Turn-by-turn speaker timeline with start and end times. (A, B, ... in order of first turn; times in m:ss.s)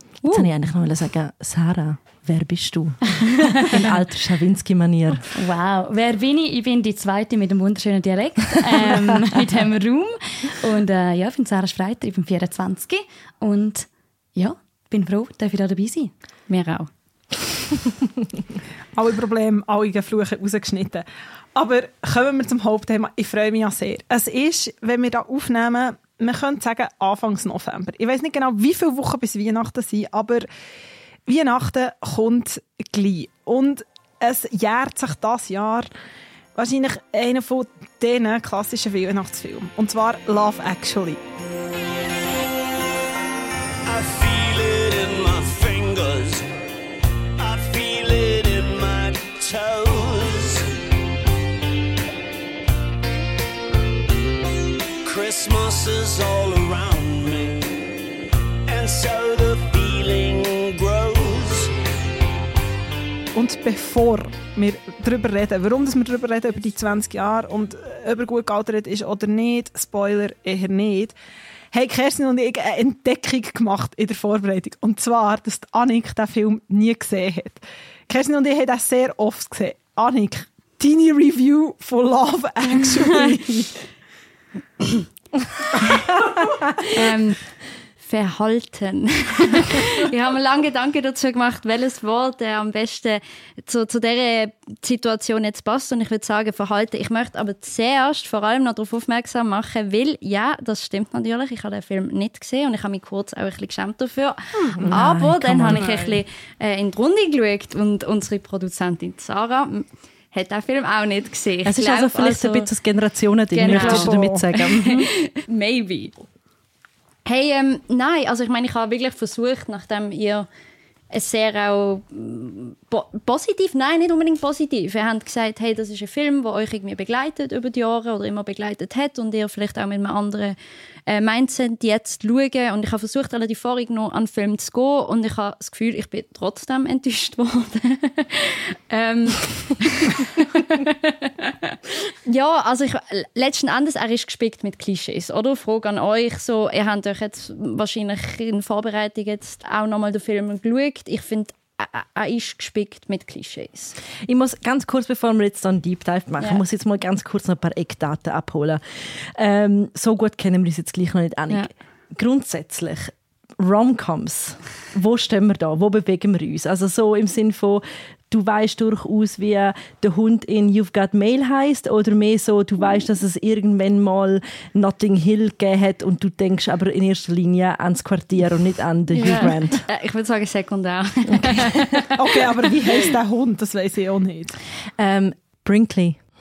0:00.2-0:00.5 A
0:00.2-0:05.2 B
0:05.3-0:16.1 A
0:16.5-0:16.9 C
0:18.9-0:30.5 D
0:31.3-0:35.9 D
0:36.5-0:41.2 D
0:43.8-0:46.5 E
0:47.4-0:50.7 E
0:55.0-0:57.9 E
0:58.7-1:01.7 E
1:03.3-1:11.1 D
1:11.7-1:23.9 D
1:26.9-1:27.4 C
1:28.0-1:52.7 C
1:44.8-1:46.2 B
1:51.6-1:55.1 B
1:53.5-1:56.1 C
1:53.7-1:54.4 D
1:57.2-2:00.5 C
2:01.1-2:10.6 C
2:11.1-2:33.9 C
2:34.2-2:59.8 B
2:59.1-3:02.4 C
3:01.3-3:02.1 B
3:02.1-3:04.6 D
3:05.0-3:06.2 B